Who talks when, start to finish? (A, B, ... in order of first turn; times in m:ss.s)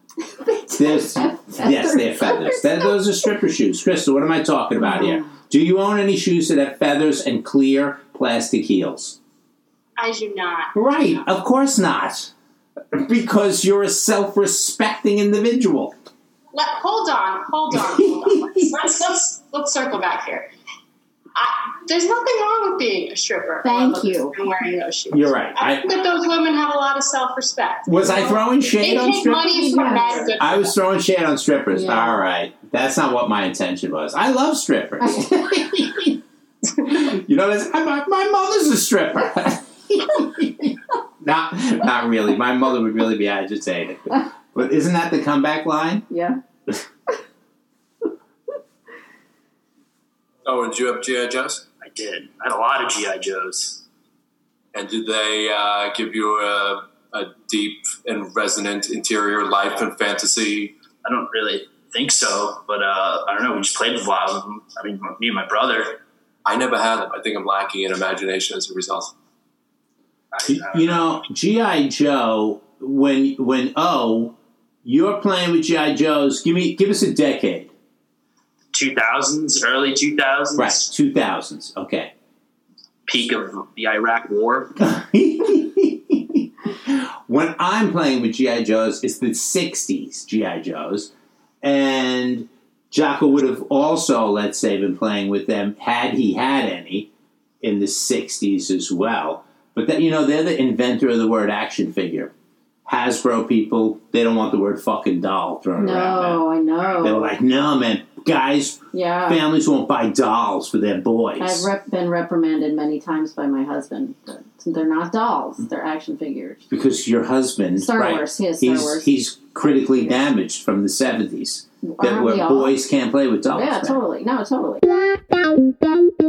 0:00.4-0:03.0 A
0:00.8-0:09.2 B
0:04.8-0:05.3 A
0:10.0-0:10.7 C
0:10.7-0:12.3 B
0:12.9-0:15.9 B
0:16.5-0:20.5 C
0:18.4-0:18.7 B
0:21.3-0:30.7 C
0:23.6-0:24.3 A
0:25.1-0:25.9 B
0:27.8-0:36.2 B
0:29.4-0:30.3 A
0:31.7-0:32.2 A
0:35.0-0:35.4 A
0:36.8-0:46.0 B
0:46.1-0:46.4 A
0:50.7-0:51.5 D
0:51.8-0:53.8 E
0:54.7-0:58.5 D
0:59.4-1:00.3 D
1:01.0-1:06.0 E
1:06.5-1:06.7 C
1:07.0-1:07.4 D
1:10.3-1:11.1 E
1:10.4-1:17.7 B
1:18.7-1:20.9 E
1:20.6-1:22.1 B
1:23.0-1:24.7 E
1:24.8-1:31.1 B
1:31.6-1:37.1 B
1:37.6-1:42.3 B
1:42.8-1:46.4 B
1:45.8-1:47.3 A
1:47.0-1:51.7 B
1:48.9-1:49.4 A
1:51.4-1:56.7 A
1:56.7-2:04.0 B
1:57.8-1:59.1 A
1:59.7-2:00.1 A
2:01.8-2:02.8 A
2:03.5-2:05.0 A